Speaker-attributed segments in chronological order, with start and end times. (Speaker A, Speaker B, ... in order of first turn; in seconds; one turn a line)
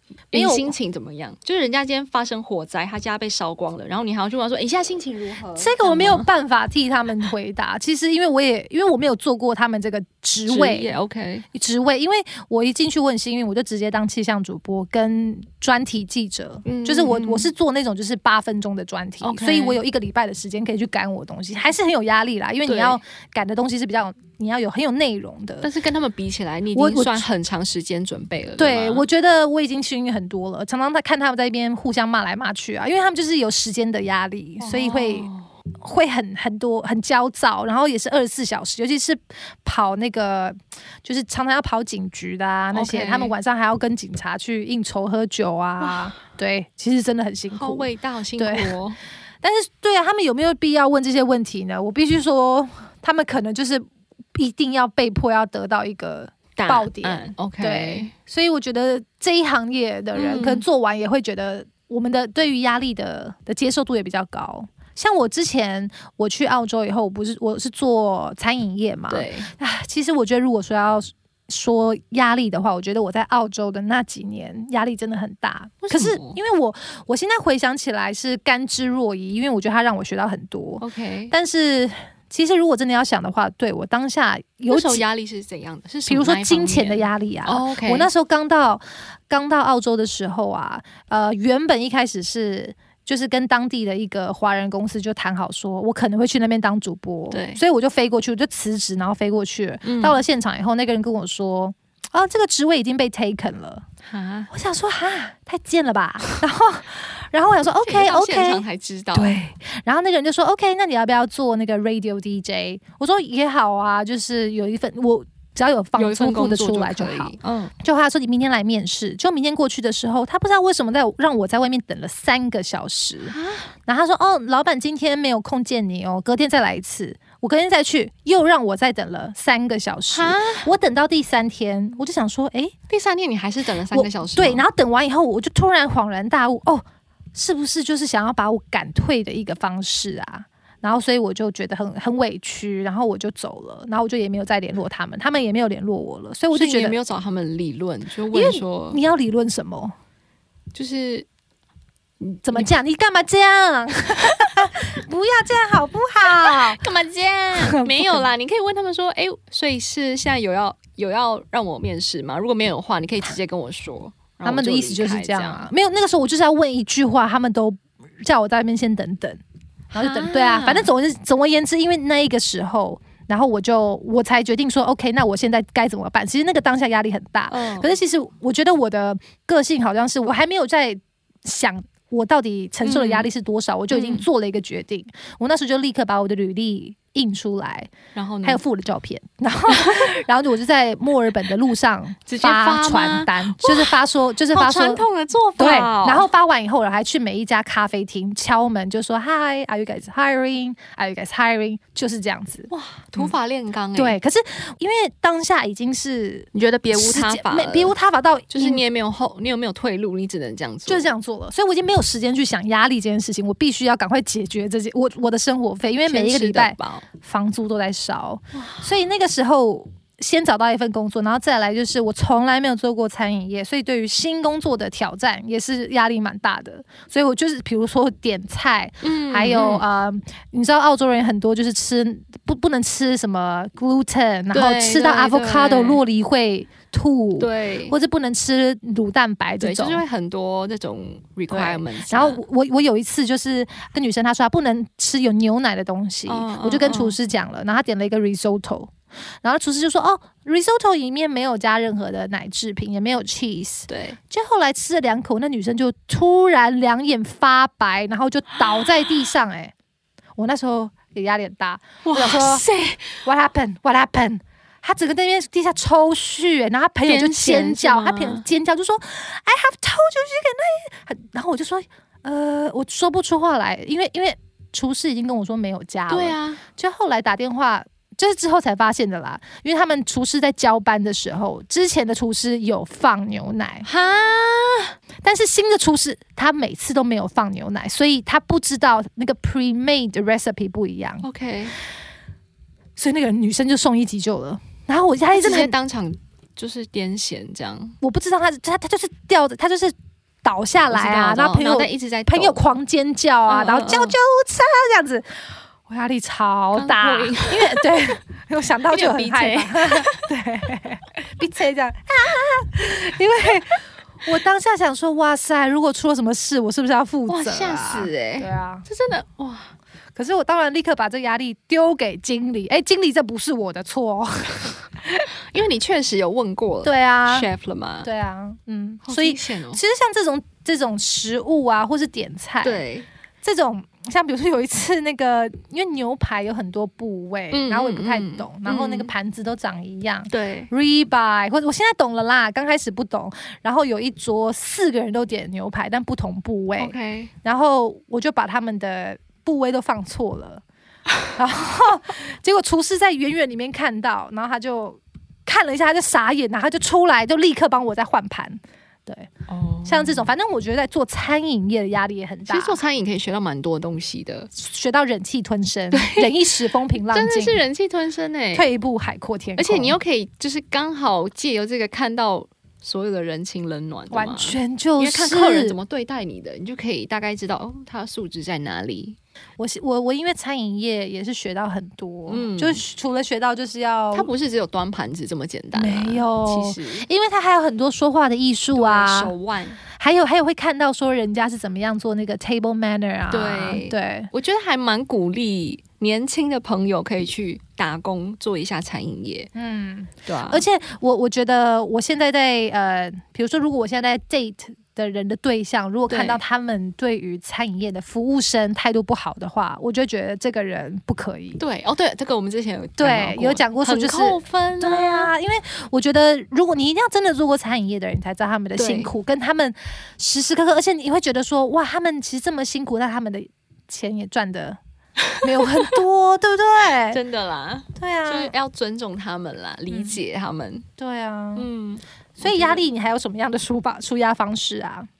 Speaker A: 0.3-6.3
Speaker B: 0.3-0.7
Speaker B: 5.6-10.9
Speaker A: 10.5-11.4
Speaker B: 11.5-25.7
Speaker A: 16.6-17.5
Speaker A: 19.2-19.8
Speaker A: 22.7-23.0
Speaker A: 25.6-29.1
Speaker B: 26.7-27.2
Speaker B: 28.6-35.3
Speaker A: 34.6-35.5
Speaker B: 35.8-47.9
Speaker A: 42.7-43.3
Speaker A: 45.8-46.1
Speaker A: 47.5-49.0
Speaker B: 48.4-48.8
Speaker B: 49.4-85.0
Speaker A: 56.6-58.1
Speaker A: 60.1-60.6
Speaker A: 69.1-69.5
Speaker A: 75.8-76.4
Speaker A: 80.8-81.3
Speaker A: 84.7-88.1
Speaker B: 86.1-103.8
Speaker A: 97.3-97.6
Speaker A: 99.8-100.2
Speaker A: 104.0-104.5
Speaker B: 104.5-108.6
Speaker A: 107.7-109.4
Speaker B: 109.1-123.3
Speaker A: 116.0-117.7
Speaker A: 123.3-123.7
Speaker B: 123.8-132.7
Speaker A: 130.1-130.7
Speaker A: 132.9-134.6
Speaker B: 133.9-147.0
Speaker A: 146.5-149.0
Speaker B: 148.3-149.9
Speaker A: 150.7-151.3
Speaker B: 152.4-156.8
Speaker A: 154.2-154.6
Speaker A: 156.4-165.7
Speaker B: 157.5-158.3
Speaker B: 164.4-169.4
Speaker B: 169.9-187.9
Speaker A: 169.9-170.9
Speaker A: 177.5-178.0
Speaker A: 182.8-183.3
Speaker A: 183.9-184.2
Speaker A: 188.1-188.6
Speaker B: 188.4-195.1
Speaker A: 189.7-190.1
Speaker A: 192.3-194.0
Speaker A: 194.5-196.3
Speaker B: 195.6-203.3
Speaker A: 202.7-204.2
Speaker B: 203.9-208.8
Speaker A: 206.5-207.9
Speaker A: 208.5-211.1
Speaker B: 210.9-240.0
Speaker A: 216.1-217.1
Speaker A: 218.5-218.8
Speaker A: 229.0-229.8
Speaker A: 234.5-236.0
Speaker A: 237.4-237.9
Speaker A: 239.6-242.4
Speaker B: 241.5-259.7
Speaker A: 246.3-247.2
Speaker A: 253.9-254.2
Speaker B: 260.4-262.6
Speaker A: 262.0-263.1
Speaker B: 263.2-283.9
Speaker A: 267.1-268.4
Speaker A: 276.1-276.6
Speaker A: 283.8-284.9
Speaker B: 285.2-291.2
Speaker A: 291.2-291.8
Speaker B: 292.9-295.7
Speaker A: 295.3-298.0
Speaker B: 298.0-305.2
Speaker A: 300.9-302.6
Speaker A: 303.5-304.1
Speaker B: 305.9-318.9
Speaker A: 306.7-308.0
Speaker A: 308.9-310.2
Speaker A: 317.3-319.7
Speaker B: 320.1-325.3
Speaker A: 325.5-328.1
Speaker B: 326.8-327.5
Speaker B: 328.0-332.8
Speaker A: 329.0-329.8
Speaker A: 332.6-333.1
Speaker B: 333.4-350.6
Speaker A: 337.5-339.1
Speaker A: 340.3-340.7
Speaker A: 346.8-347.3
Speaker B: 351.3-359.3
Speaker A: 359.5-360.3
Speaker B: 359.8-362.8
Speaker A: 362.5-364.5
Speaker B: 364.5-367.6
Speaker A: 365.9-368.7
Speaker B: 368.5-370.0
Speaker A: 369.6-379.2
Speaker B: 374.1-375.8
Speaker B: 379.6-384.3
Speaker A: 382.3-382.8
Speaker A: 384.1-387.1
Speaker B: 385.7-389.3
Speaker A: 388.7-389.8
Speaker B: 390.0-394.3
Speaker A: 393.3-399.5
Speaker B: 399.5-411.6
Speaker A: 400.2-400.6
Speaker A: 406.1-406.4
Speaker A: 411.6-415.3
Speaker B: 413.0-424.8
Speaker A: 418.8-419.1
Speaker B: 425.4-427.2
Speaker A: 427.1-430.8
Speaker B: 427.9-428.5
Speaker B: 429.9-430.2
Speaker B: 431.0-431.7
Speaker A: 431.6-432.8
Speaker B: 432.4-435.1